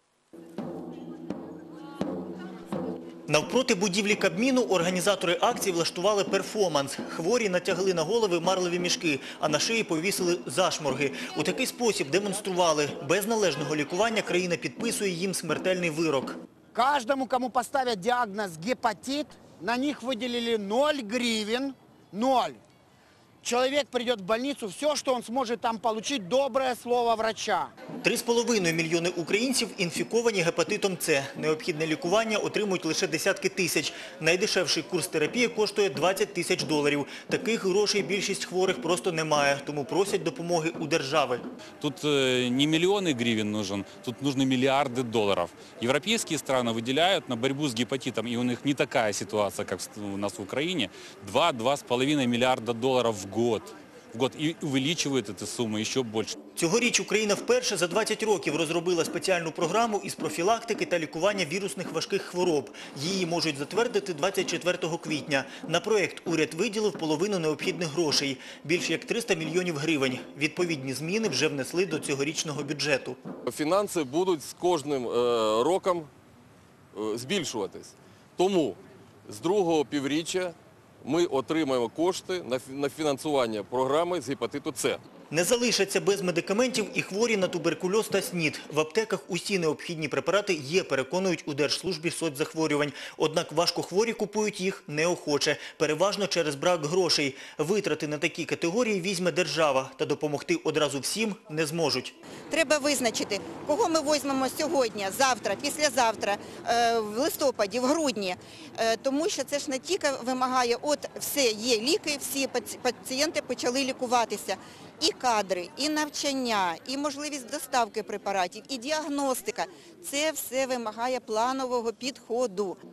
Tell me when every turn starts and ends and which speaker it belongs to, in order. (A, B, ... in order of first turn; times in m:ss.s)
0:03.3-0:16.4 A
0:16.7-0:22.6 B
0:23.4-0:27.7 B
0:28.0-0:41.4 A
0:41.8-0:56.3 C
0:56.6-1:13.2 A
1:13.5-1:16.1 D
1:16.9-1:25.0 D
1:25.3-1:42.1 A
1:42.5-2:02.8 E